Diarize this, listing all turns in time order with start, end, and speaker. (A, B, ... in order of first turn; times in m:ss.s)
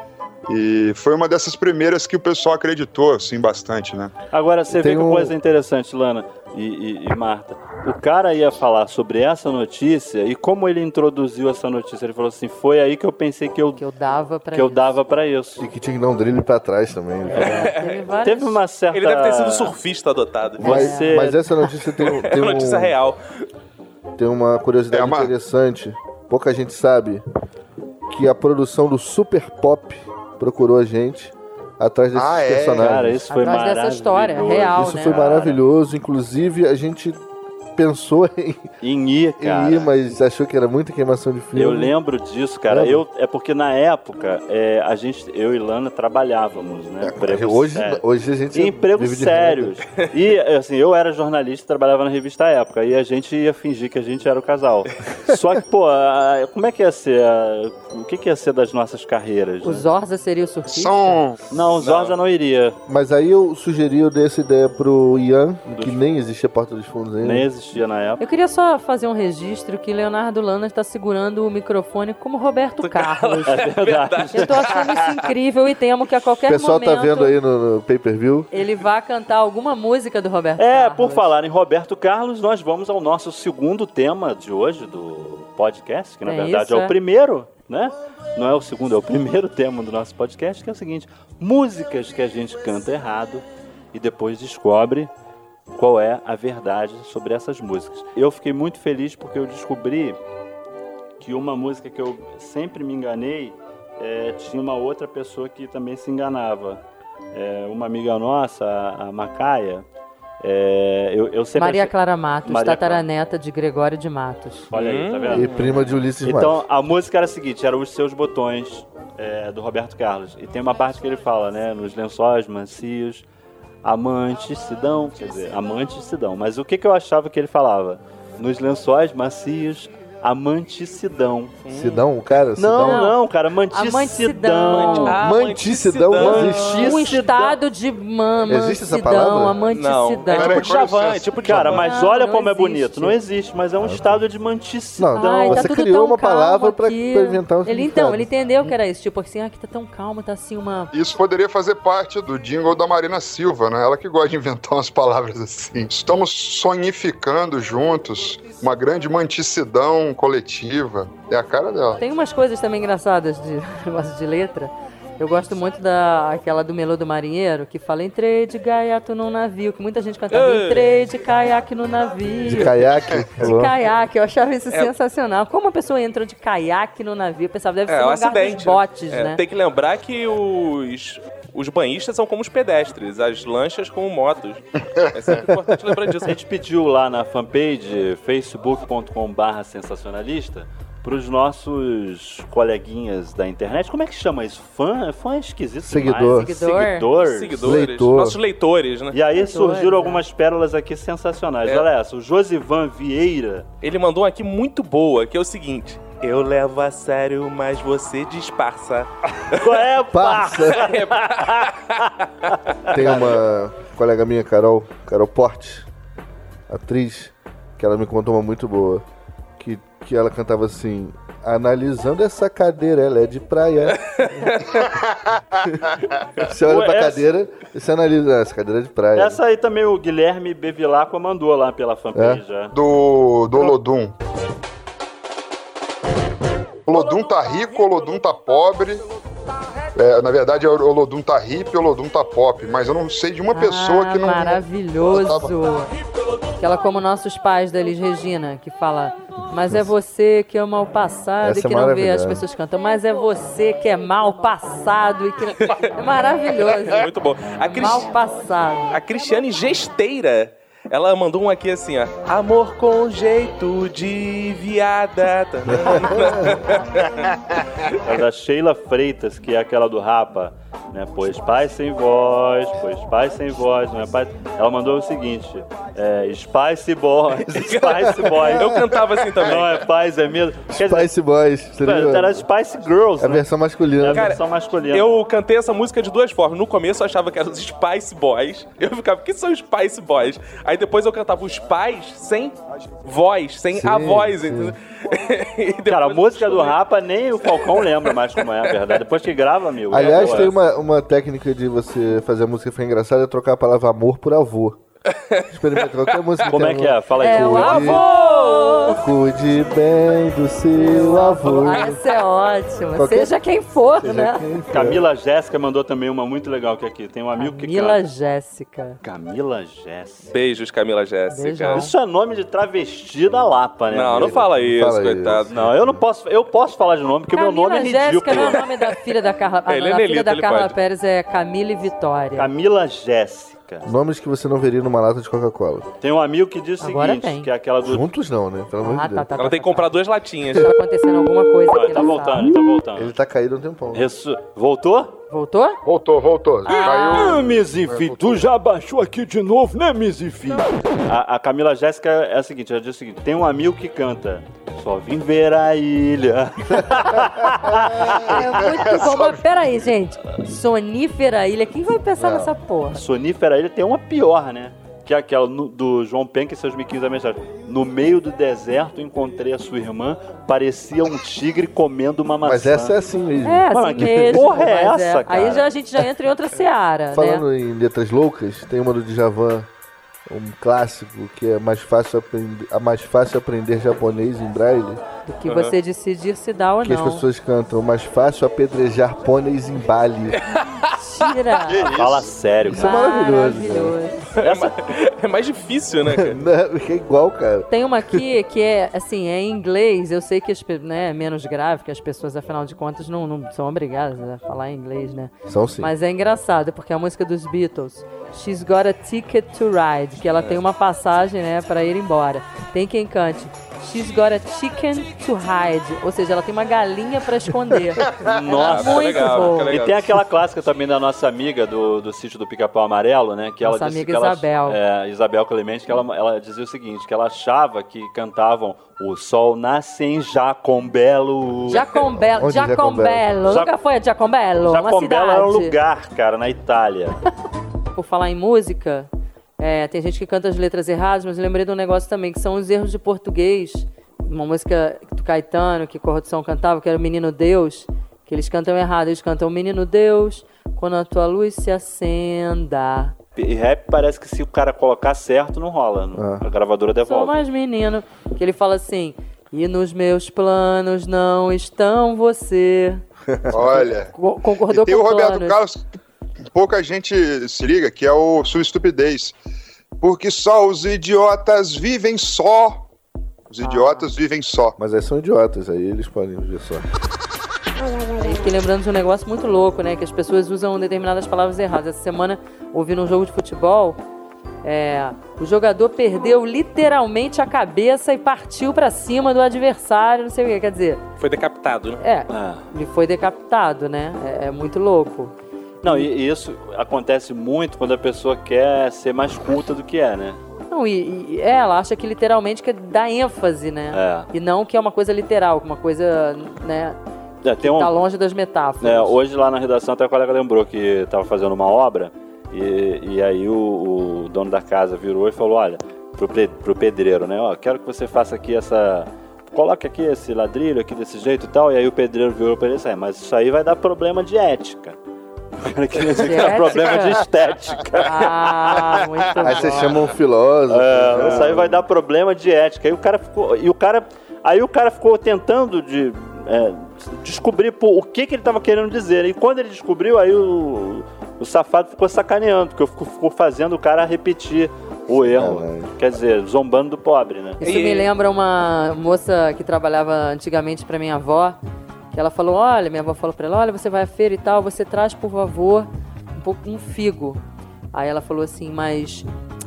0:00.5-0:04.1 A
0:04.3-0:13.8 B
0:04.7-0:05.4 C
0:13.8-0:14.9 D
0:14.5-0:15.6 B
0:15.6-0:17.7 C
0:17.2-0:18.6 D
0:17.4-0:19.8 B
0:17.4-0:18.0 E
0:18.9-0:20.7 E
0:20.6-0:21.5 B
0:20.6-0:23.0 C
0:20.7-0:21.3 D
0:22.0-0:23.5 E
0:24.2-0:27.2 C
0:24.9-0:25.3 A
0:28.1-0:33.3 C
0:32.2-0:32.7 A
0:32.7-0:35.6 B
0:33.3-0:35.2 D
0:34.7-0:37.2 C
0:37.8-0:38.7 C
0:38.8-0:39.9 B
0:39.4-0:42.0 C
0:41.6-0:48.0 B
0:42.7-0:43.0 C
0:47.0-0:49.8 C
0:48.5-0:59.9 B
0:59.6-1:01.2 D
1:00.7-1:01.4 A
1:01.5-1:02.8 B
1:01.8-1:02.2 E
1:02.9-1:07.5 C
1:05.7-1:06.0 B
1:07.2-1:08.2 B
1:08.2-1:13.6 D
1:12.8-1:15.3 E
1:13.4-1:14.7 B
1:14.3-1:17.4 D
1:16.5-1:18.5 C
1:18.5-1:21.3 D
1:20.6-1:35.1 B
1:26.2-1:27.0 D
1:35.8-1:40.2 B
1:41.2-1:46.8 B
1:47.3-1:49.8 B
1:50.4-1:51.9 B
1:51.6-1:54.7 D
1:52.4-1:53.0 B
1:54.7-2:03.2 B
1:54.7-1:55.8 E
1:55.3-1:56.6 C
2:03.8-2:11.6 B
2:11.6-2:12.0 E
2:11.7-2:13.1 C
2:12.6-2:15.2 B
2:12.8-2:13.2 D
2:13.7-2:15.2 D
2:14.7-2:17.2 E
2:15.2-2:17.1 C
2:16.1-2:17.6 B
2:16.6-2:20.7 D
2:18.5-2:19.6 C
2:19.7-2:21.9 E
2:20.3-2:21.4 A
2:21.4-2:25.7 B
2:21.6-2:23.2 D
2:23.8-2:24.2 C
2:25.0-2:28.3 C
2:25.2-2:30.9 D
2:30.9-2:42.0 A
2:42.0-2:52.8 D
2:50.3-2:51.0 E
2:52.4-2:53.7 C
2:53.4-2:59.4 D
2:57.9-3:06.4 E
3:05.0-3:05.4 A
3:06.2-3:17.8 B
3:15.8-3:16.6 C
3:16.4-3:17.1 D
3:17.2-3:19.2 E
3:17.6-3:18.4 C
3:19.1-3:23.7 B
3:19.4-3:20.2 D
3:23.8-3:29.7 E
3:29.5-3:33.4 B
3:30.1-3:31.0 C
3:30.7-3:32.6 E
3:32.9-3:35.9 C
3:36.7-3:39.0 C
3:39.6-3:44.0 C
3:44.1-3:44.9 E
3:45.1-3:45.4 A
3:46.4-3:49.4 C
3:46.6-3:47.3 B
3:49.2-3:52.8 B
3:52.1-3:52.4 C
3:52.7-3:54.1 A
3:56.9-3:59.0 A
4:00.0-4:05.5 A
4:03.5-4:05.9 D
4:06.6-4:17.1 D
4:09.6-4:09.9 C
4:11.4-4:12.4 C
4:16.6-4:18.1 E
4:17.6-4:19.0 D
4:18.9-4:27.3 E
4:25.7-4:26.6 C
4:28.0-4:38.8 B
4:37.5-4:39.9 E
4:39.4-4:41.1 B
4:40.7-4:42.5 C
4:41.8-4:43.4 B
4:43.2-4:44.4 C
4:44.0-4:45.2 B
4:44.1-4:56.8 E
4:53.7-4:54.8 C
4:55.9-5:00.5 B
4:57.4-4:58.9 E
4:59.9-5:04.8 C
4:59.9-5:00.6 E
5:05.1-5:06.5 E
5:05.5-5:08.1 C
5:06.4-5:08.2 B
5:07.2-5:09.0 D
5:08.9-5:12.0 C
5:10.8-5:14.5 D
5:13.0-5:13.4 C
5:14.0-5:15.0 C
5:14.7-5:18.0 B
5:17.4-5:19.0 D
5:19.0-5:20.3 B
5:20.3-5:21.8 E
5:21.3-5:21.9 D
5:21.7-5:24.5 B
5:23.9-5:25.5 E
5:24.2-5:26.0 C
5:25.5-5:28.6 B
5:27.3-5:32.5 D
5:28.3-5:28.6 E
5:29.7-5:30.8 E
5:32.4-5:33.9 B
5:33.8-5:35.9 C
5:36.0-5:38.1 B
5:36.8-5:37.5 D
5:37.8-5:39.3 C
5:38.8-5:39.9 D
5:39.4-5:40.7 E
5:40.5-5:42.6 D
5:41.7-5:43.1 B
5:43.0-5:44.1 C
5:43.9-5:45.2 B
5:45.3-5:45.8 D
5:45.8-5:48.5 A
5:46.7-5:47.4 D
5:46.7-5:58.6 B
5:58.0-6:03.0 D
5:58.2-5:59.4 A
6:02.2-6:02.5 C
6:02.9-6:13.0 B
6:12.4-6:14.4 C
6:13.4-6:17.4 D
6:13.7-6:15.7 B
6:17.1-6:19.7 C
6:20.3-6:25.0 C
6:25.3-6:27.2 D
6:25.5-6:25.8 E
6:26.8-6:30.4 C
6:30.5-6:30.8 E
6:31.0-6:32.0 D
6:31.7-6:32.3 A
6:31.8-6:33.0 B
6:32.7-6:34.0 C
6:32.7-6:34.4 D
6:34.4-6:36.4 E
6:34.4-6:34.7 B
6:36.1-6:38.2 C
6:37.7-6:59.8 D
6:45.5-6:45.9 C
6:58.2-7:11.9 B
6:58.2-7:00.2 E
7:03.6-7:04.8 D
7:11.7-7:15.8 D
7:12.2-7:13.3 C
7:13.4-7:13.8 B
7:14.6-7:17.2 B
7:17.9-7:33.2 D
7:33.4-7:37.4 B
7:36.2-7:36.4 C
7:37.0-7:43.0 D
7:43.5-7:43.8 C
7:43.5-7:44.2 A
7:44.1-7:45.6 D
7:44.7-7:45.8 A
7:46.5-7:49.4 A
7:50.0-7:52.8 A
7:53.5-7:54.8 A
7:53.6-7:54.1 D
7:54.8-7:56.9 C
7:58.0-8:04.0 D
8:04.6-8:11.0 D
8:11.2-8:12.0 E
8:12.0-8:15.3 D
8:12.3-8:12.6 B
8:15.8-8:20.4 B
8:15.8-8:16.1 D
8:20.7-8:27.0 D
8:23.9-8:24.3 B
8:27.4-8:27.9 B
8:27.6-8:29.2 D
8:28.8-8:45.0 B
8:45.6-8:49.8 B
8:46.1-8:47.2 D
8:48.0-8:50.1 D
8:49.4-8:51.9 C
8:50.7-9:07.6 B
9:05.4-9:05.9 C
9:07.6-9:11.6 D
9:07.6-9:08.1 E
9:12.1-9:17.4 D
9:17.9-9:19.3 D